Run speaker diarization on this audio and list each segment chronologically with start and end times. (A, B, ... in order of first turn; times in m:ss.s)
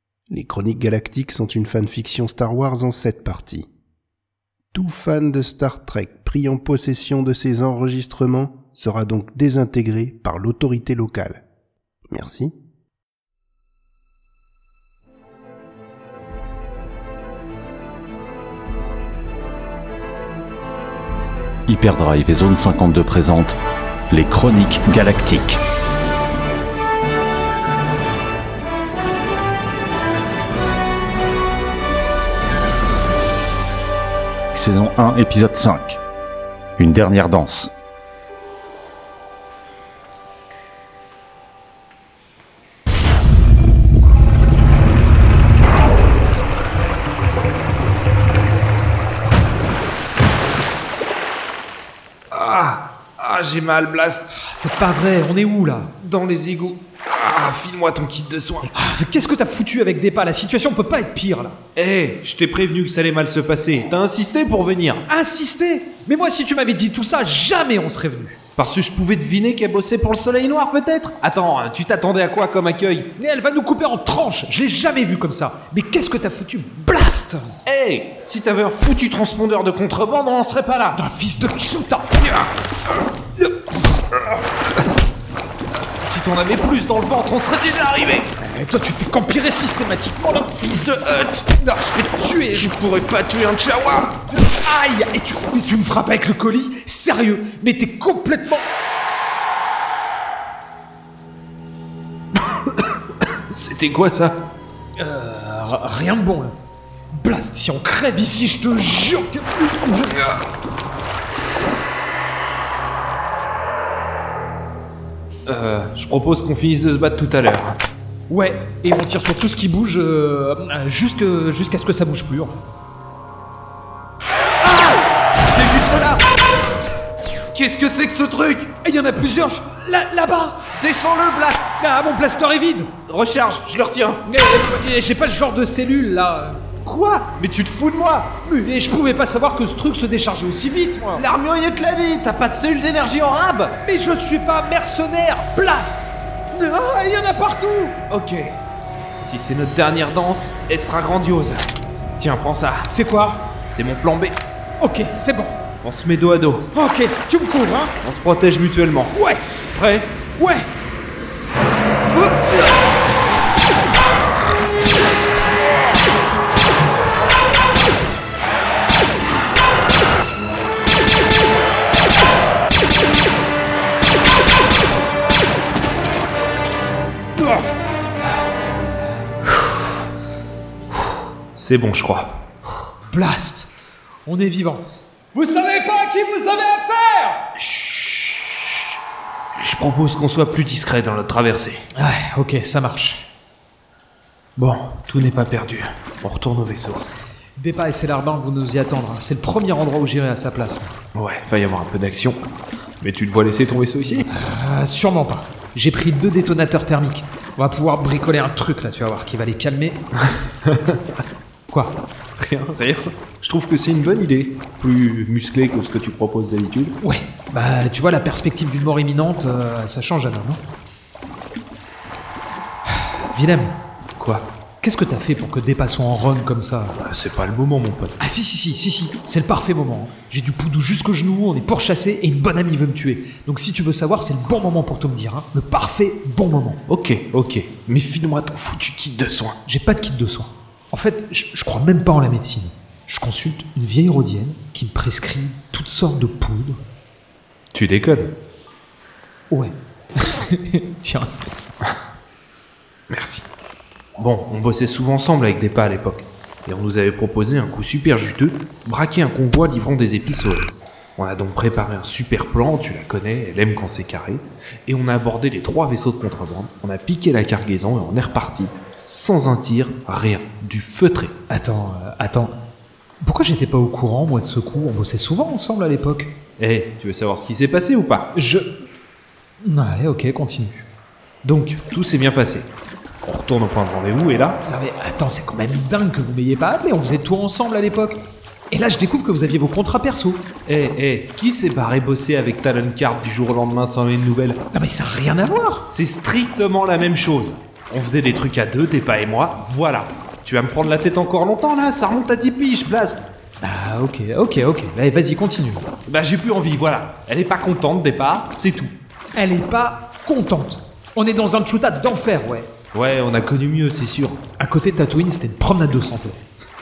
0:00.3-0:03.7 A
0:04.7-0:11.4 A
0:12.1-0:12.5 A
0:21.7-0:23.6 B
0:24.1-0:25.6 B
0:34.5-0:36.0 B
0:36.8-0:37.7 B
0:52.3-0:54.3 C
0:54.3-0:55.9 D
0:56.0-0:58.7 C
0:58.7-1:01.6 D
1:01.8-1:05.0 C
1:05.1-1:08.4 D
1:08.6-1:13.1 C
1:13.2-1:17.6 D
1:17.6-1:21.0 C
1:20.9-1:22.1 D
1:22.2-1:22.5 C
1:26.0-1:28.3 C
1:28.4-1:30.8 D
1:30.7-1:31.4 C
1:31.5-1:32.7 D
1:32.5-1:34.2 C
1:34.3-1:38.6 D
1:43.5-1:44.4 C
1:45.0-1:46.5 D
1:47.1-1:50.2 D
1:55.4-1:57.7 C
1:58.3-2:02.7 D
2:05.5-2:06.2 C
2:07.5-2:08.7 C
2:08.8-2:10.6 D
2:10.8-2:11.7 C
2:11.8-2:12.9 D
2:13.1-2:14.2 C
2:14.2-2:16.6 D
2:16.8-2:18.3 C
2:18.4-2:21.2 D
2:21.2-2:23.8 C
2:23.8-2:28.0 D
2:28.1-2:28.5 C
2:29.2-2:32.9 C
2:32.9-2:33.4 D
2:33.7-2:34.4 C
2:34.8-2:35.6 D
2:35.8-2:36.7 C
2:36.7-2:37.9 D
2:38.0-2:39.1 C
2:39.1-2:39.4 D
2:39.7-2:40.1 C
2:40.4-2:40.7 D
2:42.1-2:42.5 C
3:01.6-3:02.4 C
3:03.1-3:03.7 D
3:04.2-3:07.4 D
3:07.6-3:08.8 C
3:09.6-3:11.8 C
3:11.9-3:13.2 D
3:14.6-3:17.1 C
3:17.6-3:21.0 D
3:21.1-3:22.4 C
3:23.0-3:24.3 C
3:24.3-3:30.0 D
3:30.7-3:31.0 C
3:31.7-3:32.0 D
3:32.4-3:36.9 C
3:37.0-3:40.6 D
3:43.0-3:43.8 D
3:44.2-3:44.4 C
3:44.8-3:47.0 D
3:47.0-3:48.2 C
3:48.2-3:56.8 D
3:56.9-3:59.6 C
3:59.6-4:06.8 D
4:07.7-4:08.3 C
4:09.5-4:11.3 D
4:13.1-4:13.4 C
4:14.2-4:31.3 C
4:31.5-4:32.6 D
4:33.2-4:36.3 D
4:36.6-4:38.3 C
4:38.3-4:38.7 D
4:39.6-4:40.8 D
4:41.4-4:42.7 C
4:43.2-4:44.6 C
4:44.6-4:50.4 D
4:50.6-4:54.6 C
4:54.7-4:55.9 D
4:55.9-5:03.2 C
5:03.6-5:05.8 D
5:06.1-5:08.9 C
5:09.3-5:12.7 D
5:12.9-5:14.4 C
5:14.6-5:16.4 D